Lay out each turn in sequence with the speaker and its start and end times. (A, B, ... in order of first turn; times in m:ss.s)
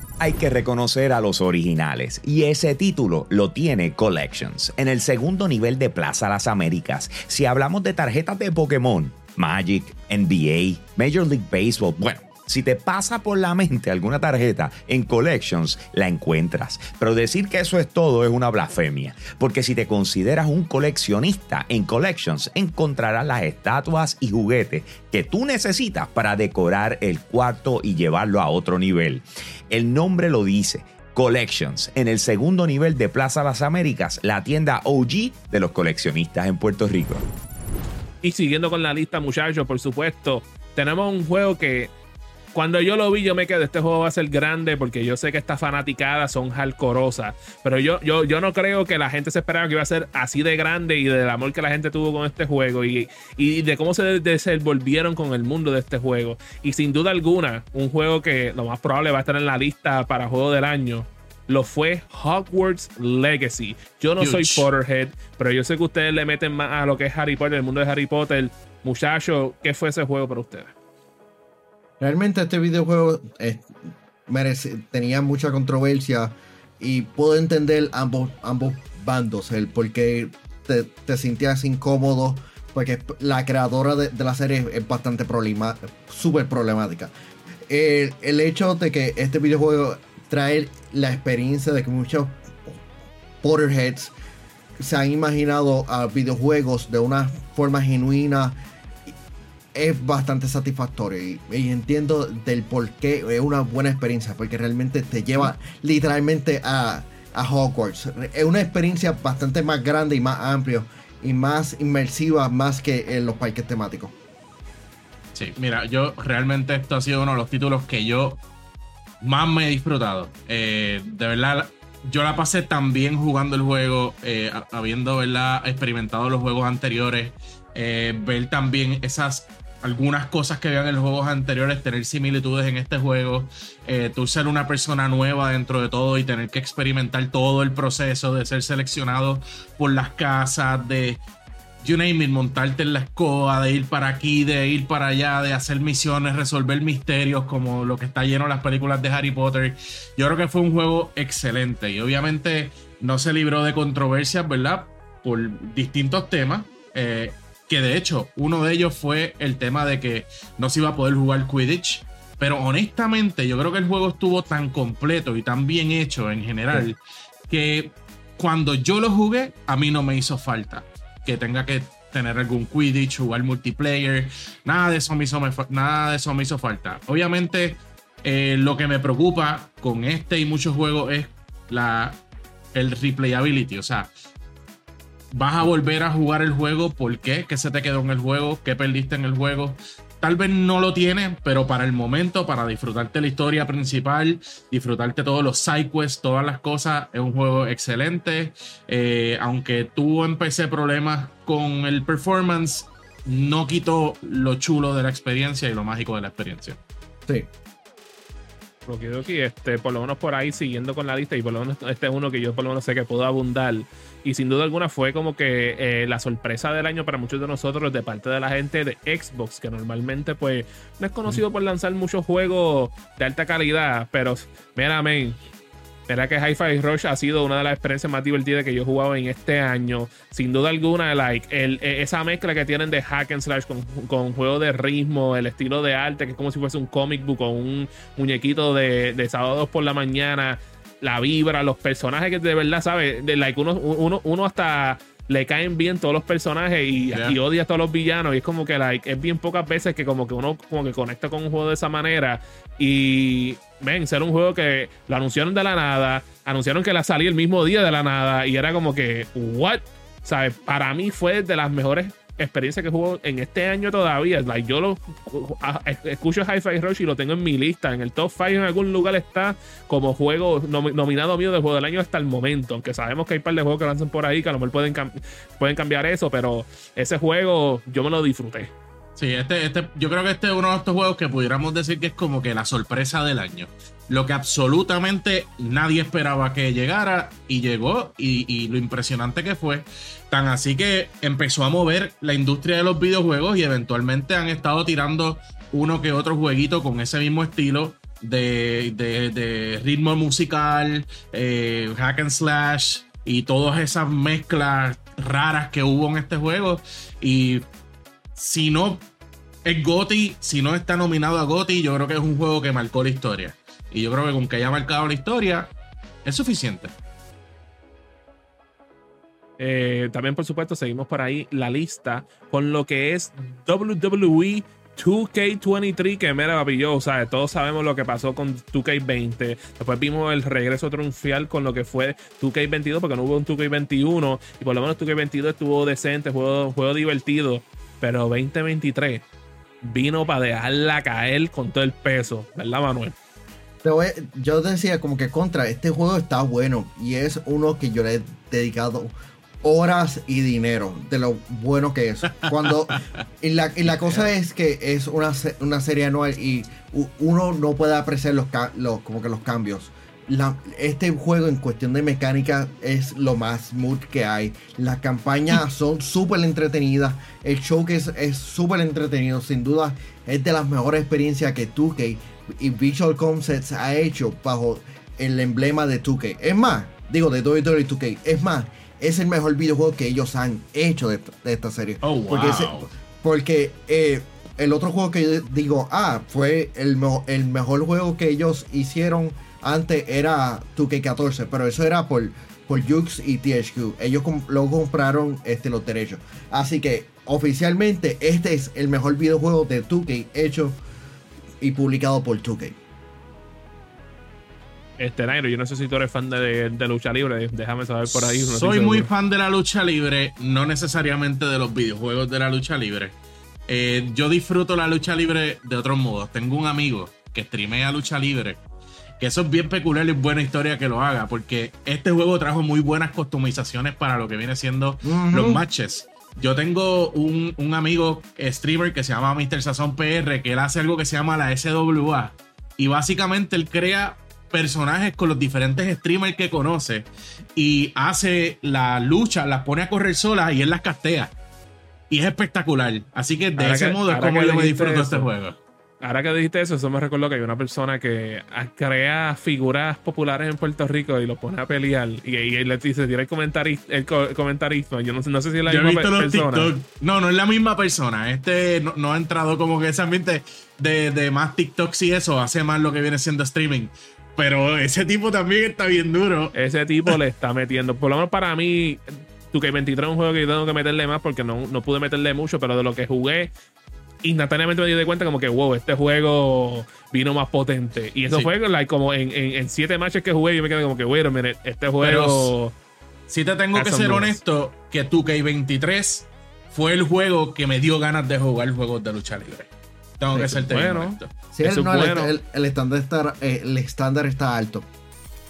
0:00.2-0:37.2 A
0:38.2-0:41.9 B
0:42.5-1:10.7 B
1:04.2-1:04.6 C
1:12.0-1:13.7 D
1:14.3-1:27.1 D
1:27.7-1:32.8 D
1:33.4-1:34.1 D
1:34.8-1:38.6 D
1:39.7-1:54.1 D
1:55.3-1:58.4 C
1:59.2-2:21.2 C
2:21.8-2:47.0 C
2:47.5-3:02.2 C
3:02.7-3:04.1 C
3:05.3-3:26.8 C
3:28.9-3:45.4 B
3:46.1-4:38.7 B
4:07.1-4:07.4 C
4:39.2-5:07.6 C
5:08.4-5:09.0 C
5:09.6-5:15.7 C
5:16.2-5:16.9 C
5:19.6-5:39.2 B
5:39.8-5:43.1 B
5:43.8-6:40.8 D
5:52.4-5:53.0 C
6:22.0-6:22.9 C
6:41.6-6:42.8 D
6:45.0-6:49.1 B
6:48.1-6:53.1 C
6:53.7-6:58.6 C
6:59.2-7:21.3 C
7:05.0-7:05.6 D
7:22.1-7:25.6 C
7:23.6-7:25.3 B
7:26.0-7:36.7 B
7:35.7-7:46.5 C
7:46.5-7:53.5 B
7:54.2-8:02.7 B
8:02.0-8:02.5 C
8:03.3-8:11.3 C
8:03.7-8:04.4 B
8:10.4-8:12.3 B
8:11.5-8:14.9 D